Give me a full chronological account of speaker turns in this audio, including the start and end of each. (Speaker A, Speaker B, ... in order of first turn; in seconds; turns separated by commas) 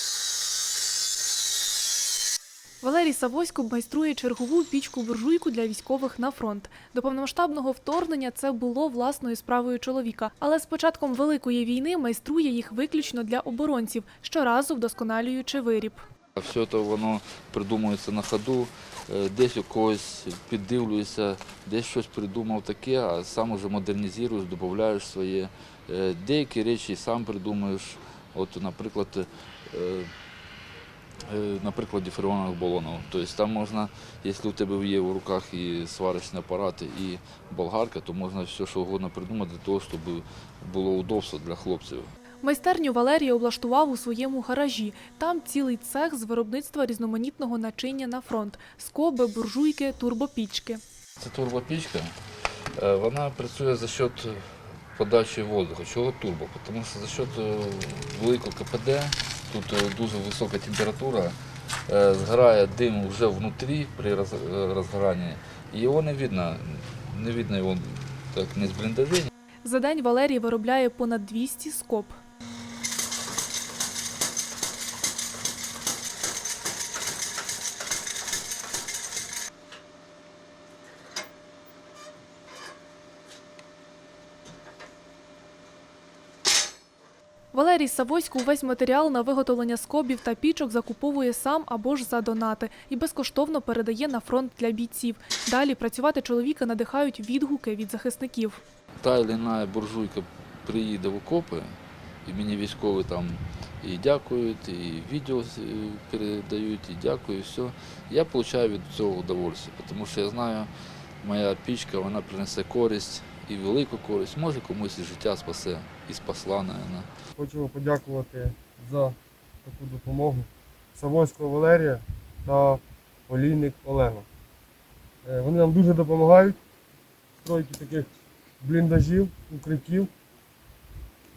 Speaker A: 2.8-16.0, Speaker B: 16.4-30.1, Speaker B: 31.3-42.1, Speaker A: 42.4-50.8, Speaker B: 51.2-52.1, Speaker B: 52.8-54.4, Speaker B: 54.9-61.4, Speaker B: 61.9-69.3, Speaker A: 69.6-72.2, Speaker A: 87.5-98.6, Speaker B: 99.0-110.7, Speaker B: 111.2-117.1, Speaker C: 117.3-124.2, Speaker C: 125.2-126.6, Speaker C: 127.4-128.1, Speaker C: 128.6-130.1